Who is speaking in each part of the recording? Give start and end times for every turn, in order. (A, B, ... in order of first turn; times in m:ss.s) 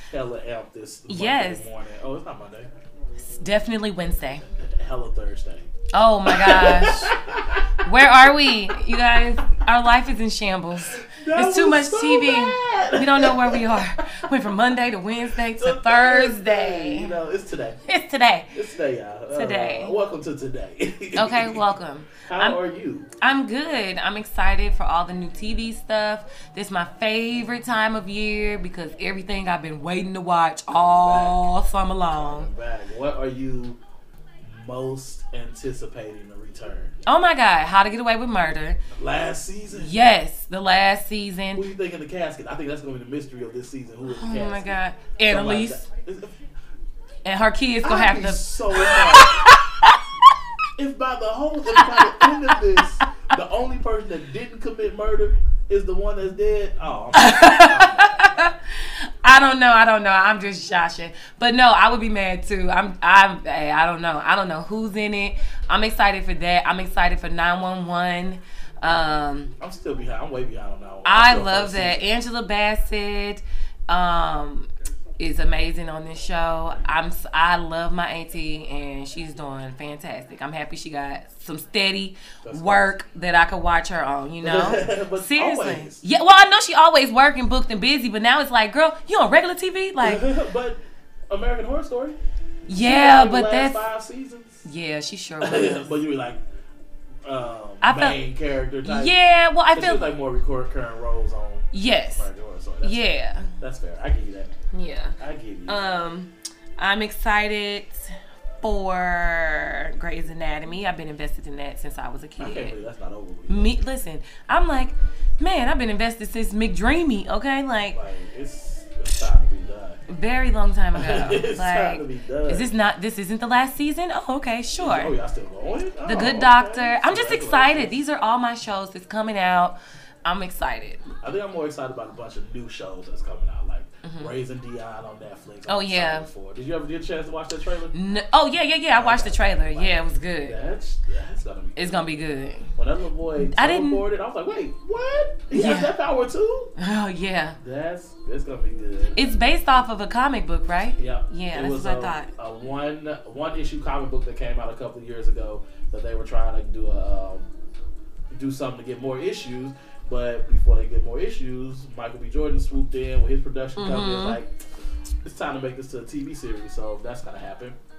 0:00.1-0:02.7 A
0:01.1-0:01.6 B
0:03.2-0:04.4 B
0:04.6-0:05.6 A
0:05.9-0:07.1 B
0:06.2-0:08.7 A
0:07.8-0:17.2 B
0:10.8-0:13.9 A
0:15.5-0:17.8 A
0:17.9-0:18.5 B
0:18.5-0:21.6 A
0:19.3-0:19.9 B
0:21.1-0:22.6 B
0:22.2-0:23.1 A
0:23.2-0:32.5 B
0:30.7-0:31.5 A
0:32.1-0:33.8 A
0:34.4-0:36.9 A
0:37.0-0:38.8 B
0:38.9-0:39.9 A
0:39.8-0:41.7 B
0:41.5-0:46.4 A
0:44.1-0:45.8 B
0:47.2-0:50.0 B
0:47.8-0:49.5 A
0:50.8-0:58.2 A
0:51.7-0:52.5 B
0:57.1-1:09.5 B
1:09.6-1:12.1 A
1:11.0-1:14.7 B
1:15.2-1:30.3 B
1:22.4-1:23.0 A
1:24.4-1:26.0 A
1:30.0-1:32.2 A
1:32.7-1:33.8 B
1:32.7-1:34.6 A
1:34.6-1:35.8 B
1:35.4-1:36.4 A
1:37.2-1:39.2 A
1:37.8-1:38.2 B
1:38.8-1:40.1 B
1:39.7-1:44.5 A
1:41.7-1:42.3 B
1:42.8-1:43.5 B
1:44.7-1:45.2 B
1:45.2-1:45.9 A
1:45.7-1:52.7 B
1:52.4-1:53.8 A
1:53.5-1:58.0 B
1:57.9-2:00.0 A
2:00.1-2:05.1 B
2:01.0-2:02.7 A
2:04.8-2:08.0 A
2:06.0-2:11.0 B
2:11.2-2:18.0 A
2:14.0-2:14.3 B
2:15.7-2:16.3 B
2:17.9-2:20.6 B
2:19.0-2:26.7 A
2:21.8-2:22.8 B
2:23.4-2:24.0 B
2:25.5-2:25.9 B
2:26.8-2:27.6 B
2:27.6-2:29.2 A
2:29.1-2:32.3 B
2:31.0-2:37.5 A
2:38.3-2:44.5 A
2:43.8-2:44.4 B
2:45.2-2:47.8 A